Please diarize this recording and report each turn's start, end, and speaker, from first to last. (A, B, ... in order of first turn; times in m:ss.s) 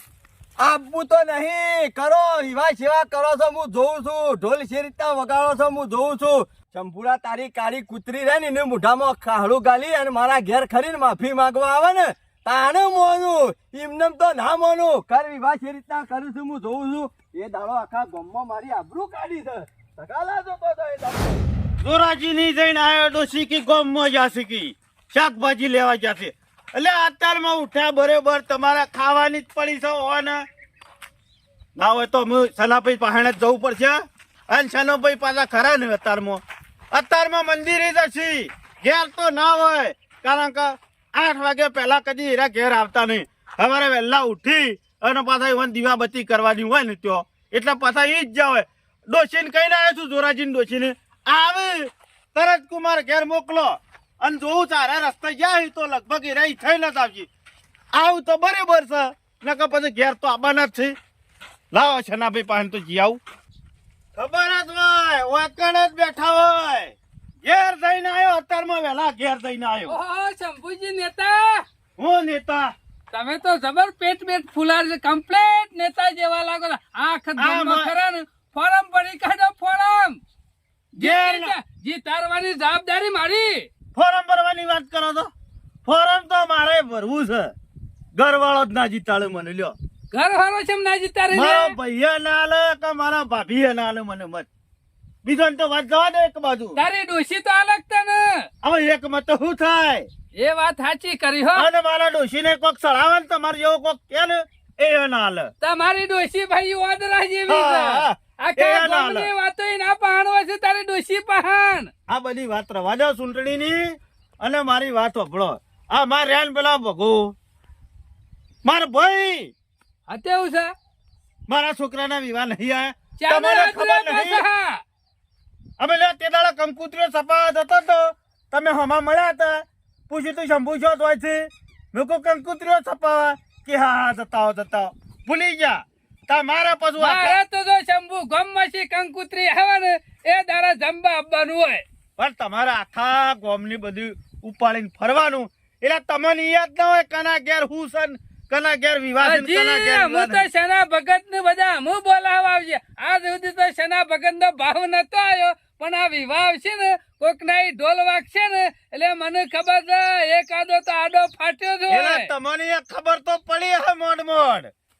0:00.6-0:21.4 A
0:21.8-0:30.4 B
0:31.8-0:36.4 B
0:36.9-0:57.3 B
0:57.9-1:01.0 B
1:01.7-1:03.2 B
1:04.1-1:10.0 B
1:09.9-1:11.6 C
1:12.0-1:12.7 B
1:13.1-1:20.2 C
1:17.4-1:17.9 B
1:21.0-1:23.7 C
1:21.0-1:21.5 B
1:23.9-1:25.3 B
1:25.8-1:27.5 B
1:28.1-1:29.7 B
1:30.1-1:31.7 C
1:31.3-1:34.5 B
1:35.2-1:36.8 B
1:36.8-1:38.5 C
1:38.6-1:40.1 B
1:40.4-1:41.7 C
1:41.5-1:45.5 B
1:45.6-1:51.9 C
1:47.5-1:49.3 B
1:52.1-1:57.3 B
1:58.6-1:59.5 B
2:00.1-2:00.7 C
2:01.5-2:04.4 B
2:03.2-2:04.8 C
2:05.8-2:17.4 B
2:17.0-2:21.8 C
2:22.2-2:30.4 B
2:29.2-2:42.3 C
2:41.9-2:44.7 B